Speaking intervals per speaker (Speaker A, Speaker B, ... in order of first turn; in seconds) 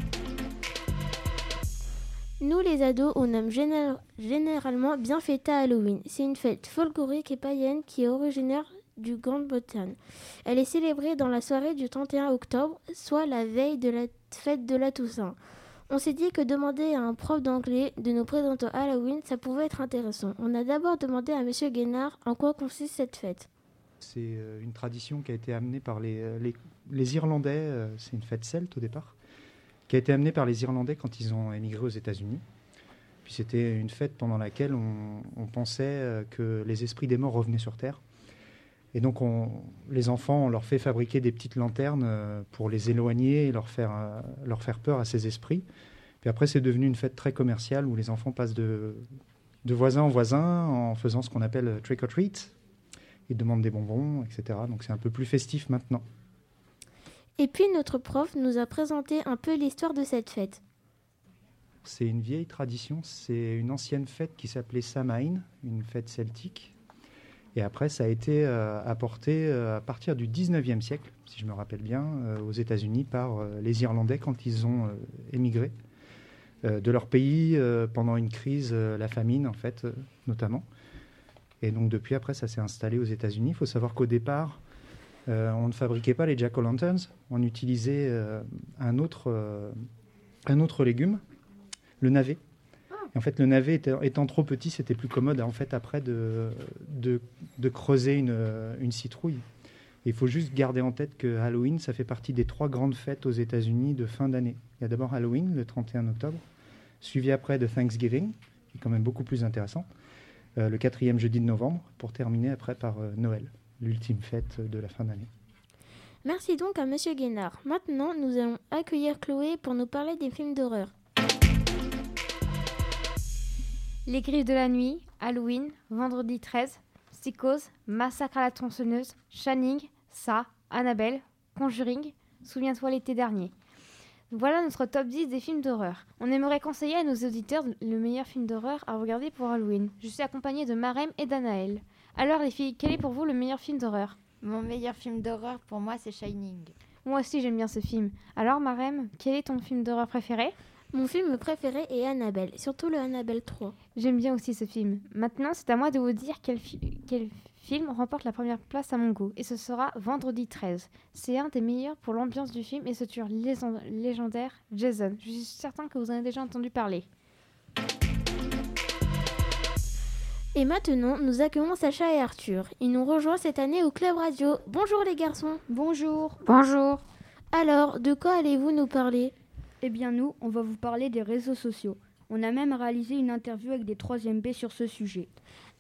Speaker A: 2.4-15.4, 15.9-23.5, 57.4-60.6, 116.2-120.9, 150.9-153.8, 170.6-175.6, 177.5-179.3
Speaker B: 24.0-29.1, 29.9-32.4, 33.2-38.0, 38.9-45.6, 46.2-49.0, 49.6-52.5, 53.3-56.0, 61.8-66.7, 67.5-75.7, 76.6-80.7, 81.6-84.6, 85.3-89.7, 90.5-91.2, 92.0-92.4, 93.1-99.4, 100.0-106.4, 107.0-109.9, 110.6-115.3
Speaker C: 124.0-133.5, 134.3-144.2, 147.0-150.5, 153.9-167.1
Speaker D: 144.4-146.7
Speaker E: 175.7-176.4, 179.8-185.3